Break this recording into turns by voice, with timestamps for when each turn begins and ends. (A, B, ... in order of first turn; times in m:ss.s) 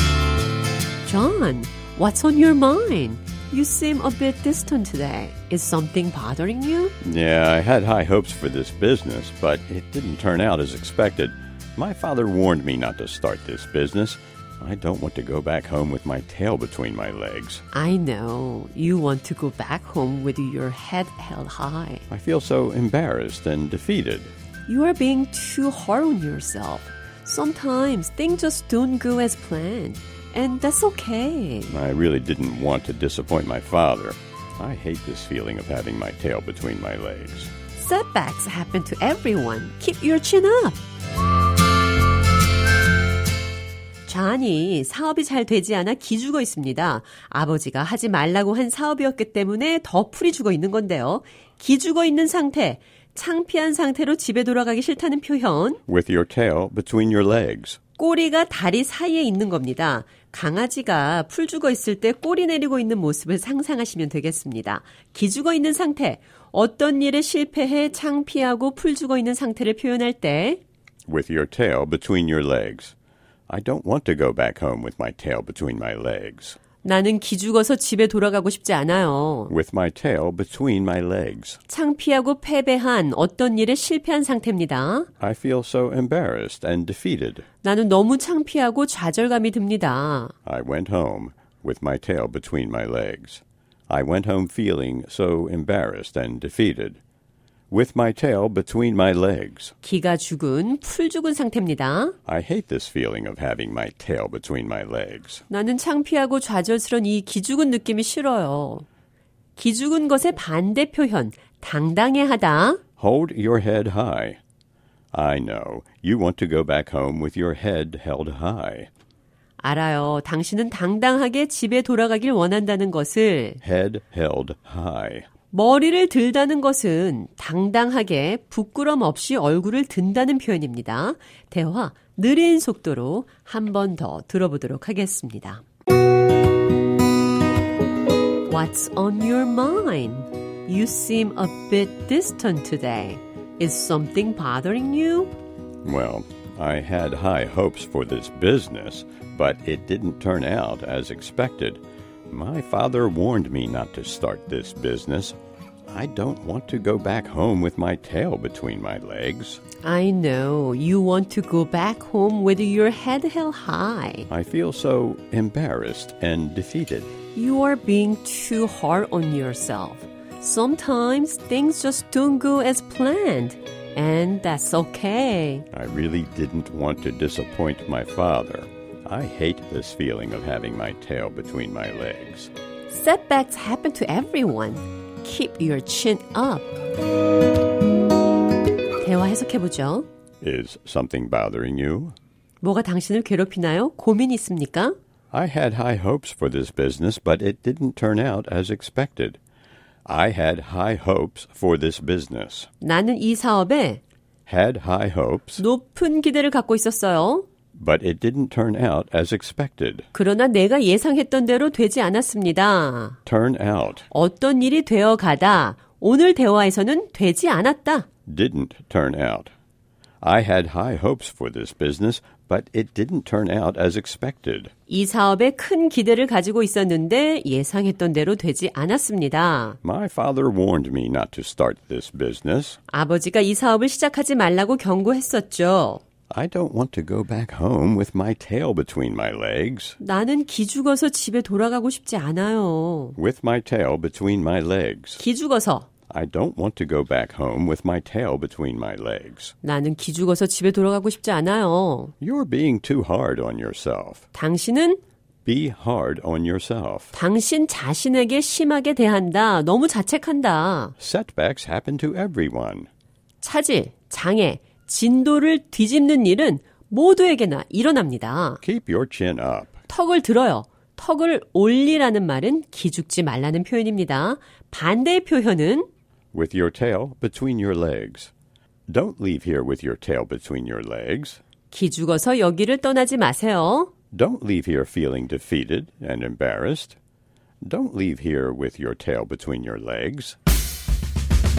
0:01.0-0:06.9 A
0:07.0-0:17.6 B
0:17.7-0:22.0 A
0:22.1-0:24.3 B
0:24.7-0:31.7 A
0:31.7-0:37.5 B
0:37.8-0:40.8 A
0:44.1-0:55.8 A
0:55.9-0:57.8 B
0:58.0-1:10.6 A
1:11.1-1:12.9 B
1:13.5-1:16.6 B
1:16.8-1:19.5 A
1:19.5-1:21.6 B
1:21.7-1:25.1 A
1:25.2-1:27.4 B
1:27.6-1:30.3 A
1:30.4-1:37.0 B
1:37.7-1:39.7 B
1:39.8-1:42.1 A
1:42.2-1:45.4 B
1:45.5-1:48.8 A
1:49.6-1:52.8 A
1:53.0-1:54.4 B
1:55.1-1:58.9 B
1:59.6-2:03.6 A
2:03.6-2:05.3 B
2:05.5-2:15.6 A
2:18.5-2:25.3 A
2:25.8-2:35.4 B
2:35.9-2:39.6 B
2:39.8-2:44.3 A
2:44.3-2:47.1 B
2:47.3-2:55.6 A
2:55.7-3:02.5 B
3:02.9-3:06.7 A
3:09.0-3:10.1 A
3:10.4-3:12.1 B
3:12.6-3:15.0 A
3:15.3-3:19.4 B
3:20.0-3:22.7 B
3:22.8-3:24.0 A
3:24.4-3:25.6 B
3:25.6-3:27.4 A
3:27.7-3:30.1 B
3:30.1-3:33.2 A
3:33.2-3:34.0 B
3:34.1-3:38.1 A
3:38.3-3:39.5 B
3:40.2-3:44.7 B
3:44.9-3:49.8 A
3:49.8-3:52.8 B
3:52.9-3:56.0 A
3:56.3-4:00.0 B
4:00.0-4:03.2 A
4:03.2-4:05.2 B
4:05.2-4:05.9 A
4:06.1-4:09.5 B
4:09.6-4:12.1 A
4:12.2-4:14.2 B
4:14.3-4:15.0 A
4:15.4-4:17.1 B
4:17.1-4:20.9 A
4:21.0-4:22.9 B
4:23.4-4:28.6 A
4:28.6-4:29.8 B
4:29.9-4:35.9 A
4:36.3-4:38.3 B
4:38.9-4:41.4 B
4:41.7-4:43.9 A
4:44.1-4:47.0 B
4:47.6-4:50.4 B